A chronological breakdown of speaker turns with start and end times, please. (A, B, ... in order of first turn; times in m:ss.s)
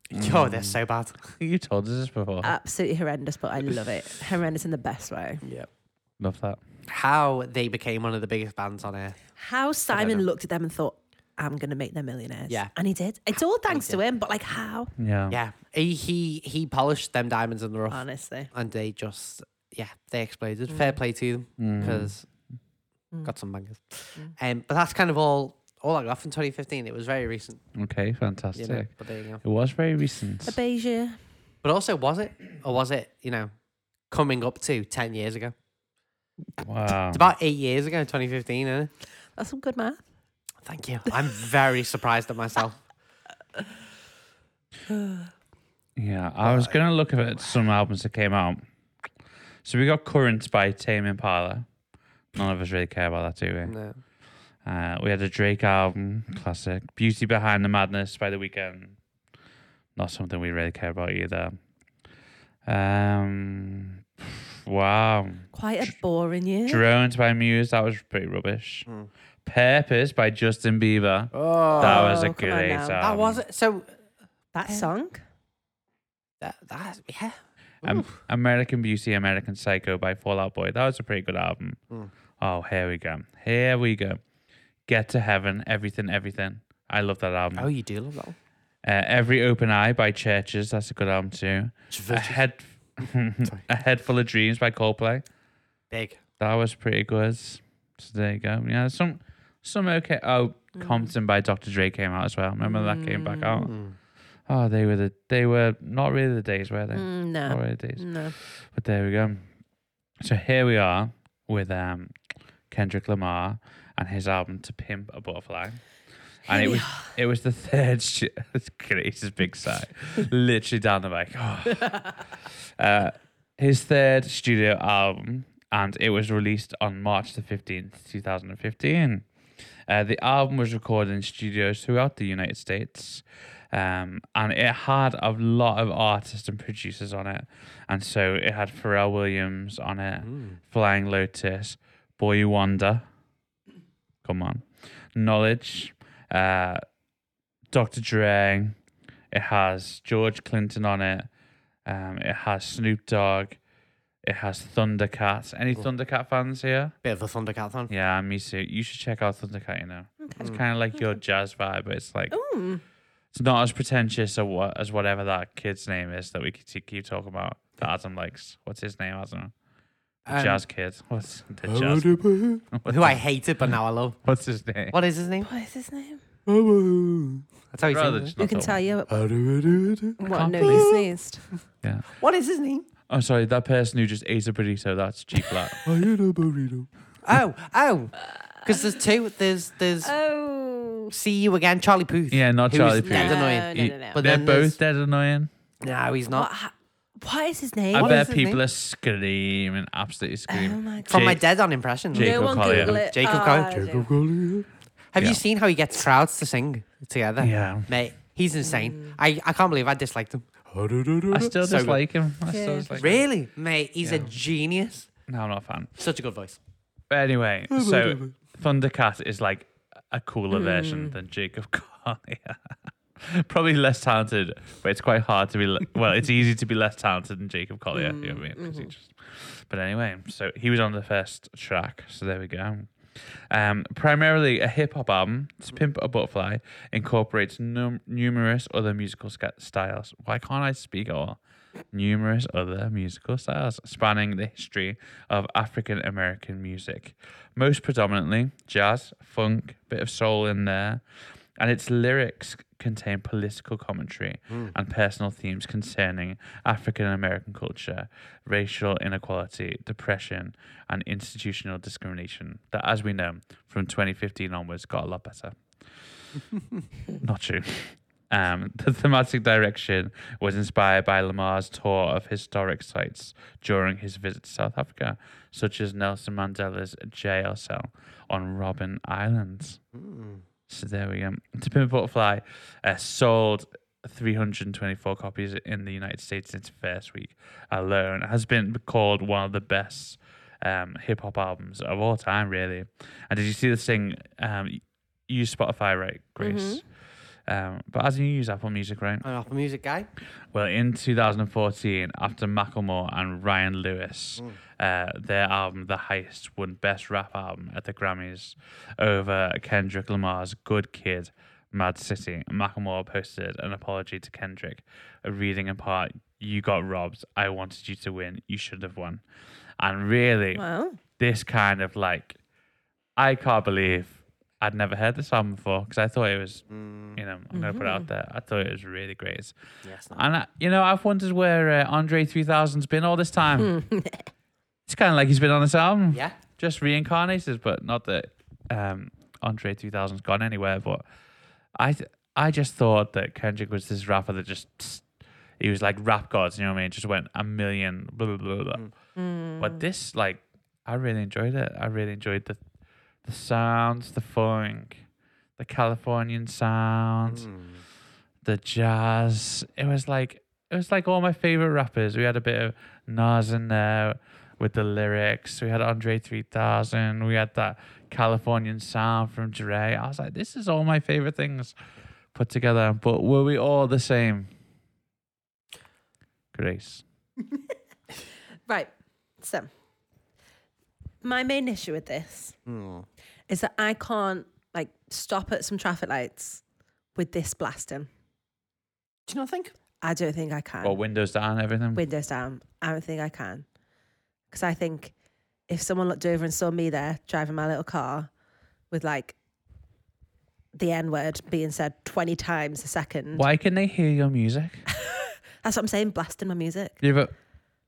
0:00.1-0:01.3 A
0:00.1-0:00.8 B
0:01.4-0:02.5 B
0:02.4-0:05.4 C
0:05.4-0:05.7 A
0:06.2-0:06.6 B
0:06.9-0:09.2 A
0:09.4-0:14.9 C
0:09.9-0:10.2 A
0:13.3-0:14.0 A
0:15.0-0:15.4 B
0:15.3-0:22.2 A
0:17.9-0:18.5 C
0:20.7-0:21.0 C
0:21.6-0:22.1 B
0:23.2-0:27.6 A
0:27.8-0:28.9 B
0:28.5-0:29.4 A
0:29.4-0:30.5 B
0:30.4-0:31.2 C
0:31.6-0:33.5 A
0:34.1-0:35.5 A
0:36.6-0:37.3 B
0:37.1-0:38.9 A
0:39.4-0:40.0 C
0:40.6-0:42.8 A
0:44.9-0:45.3 C
0:46.0-0:48.6 B
0:46.4-0:47.6 A
0:49.6-0:51.7 B
0:52.3-0:53.7 B
0:53.6-0:54.0 A
0:54.6-0:59.0 B
1:00.0-1:01.6 B
1:02.6-1:05.9 B
1:05.5-1:06.8 C
1:06.7-1:08.9 B
1:09.4-1:13.4 B
1:11.3-1:12.2 A
1:11.7-1:13.0 C
1:13.0-1:13.9 A
1:14.5-1:15.2 C
1:16.4-1:18.1 A
1:17.8-1:21.8 B
1:22.4-1:24.2 B
1:24.9-1:27.7 B
1:27.6-1:28.4 A
1:28.8-1:35.2 B
1:31.9-1:32.4 A
1:35.9-1:36.2 A
1:36.4-1:43.7 B
1:40.8-1:41.1 C
1:42.6-1:43.7 C
1:43.6-1:44.0 A
1:44.5-1:49.4 B
1:46.9-1:48.4 C
1:50.2-1:52.1 B
1:52.7-1:55.8 B
1:56.5-2:02.2 B
1:56.5-1:57.1 C
2:02.8-2:09.3 B
2:09.9-2:23.0 B
2:20.2-2:20.6 A
2:24.2-2:26.8 B
2:27.7-2:28.8 B
2:29.3-2:31.3 B
2:31.8-2:33.6 B
2:34.2-2:36.9 B
2:37.0-2:37.9 A
2:37.9-2:42.4 B
2:40.2-2:41.0 C
2:42.3-2:42.8 C
2:43.3-2:49.5 B
2:50.2-2:50.6 A
2:50.3-2:55.0 B
2:51.7-2:54.2 A
2:54.9-2:55.5 A
2:55.4-2:56.2 C
2:56.5-2:58.3 A
2:57.8-2:58.8 B
2:58.4-2:59.2 C
2:59.1-3:01.1 A
3:00.2-3:01.5 C
3:00.2-3:00.9 B
3:01.8-3:02.1 B
3:02.2-3:02.9 A
3:03.1-3:05.8 B
3:05.8-3:10.1 A
3:10.0-3:11.1 C
3:11.1-3:14.8 A
3:12.3-3:15.5 B
3:13.0-3:14.2 C
3:15.8-3:16.5 A
3:16.3-3:18.6 C
3:17.9-3:18.5 A
3:17.9-3:21.4 B
3:20.5-3:21.3 C
3:21.0-3:32.0 A
3:22.1-3:23.0 B
3:22.1-3:24.1 C
3:27.4-3:27.9 B
3:28.7-3:29.2 C
3:31.3-3:33.2 B
3:32.5-3:33.1 C
3:32.9-3:35.1 A
3:34.0-3:34.3 B
3:35.3-3:35.9 B
3:36.0-3:36.6 A
3:37.1-4:01.4 B
3:37.7-3:38.2 A
3:40.5-3:41.2 C
3:47.9-3:48.9 C
4:01.9-4:11.0 B
4:11.6-4:25.6 B
4:27.2-4:39.8 B
4:39.9-4:40.4 A
4:40.7-4:56.8 B
4:56.4-4:56.8 C
4:57.5-4:59.2 B
4:59.2-5:00.1 A
5:00.5-5:19.2 B
5:19.8-5:20.6 B
5:20.5-5:21.0 C
5:21.2-5:22.4 B
5:23.2-5:29.5 B
5:26.7-5:27.2 A
5:27.5-5:28.1 C
5:29.8-5:30.2 A
5:30.1-5:33.7 B
5:33.6-5:34.3 C
5:34.9-5:41.0 B
5:41.8-5:45.0 B
5:45.6-5:48.8 B
5:49.2-5:49.8 C
5:49.6-5:52.6 B
5:53.2-5:55.0 B
5:55.6-5:57.5 B
5:57.3-5:57.8 A
5:58.4-6:11.7 B
6:12.3-6:14.5 B
6:16.5-6:17.0 B
6:18.7-6:19.7 C
6:21.2-6:22.6 C
6:22.6-6:23.0 A
6:23.5-6:26.6 C
6:27.1-6:28.1 C
6:29.3-6:29.7 A
6:30.0-6:31.0 C
6:30.8-6:32.0 B
6:31.9-6:33.6 C
6:34.5-6:35.1 C
6:35.7-6:38.3 C
6:38.9-6:39.3 C
6:40.7-6:43.4 C
6:43.3-6:44.9 B
6:44.9-6:47.0 C
6:47.0-6:47.3 B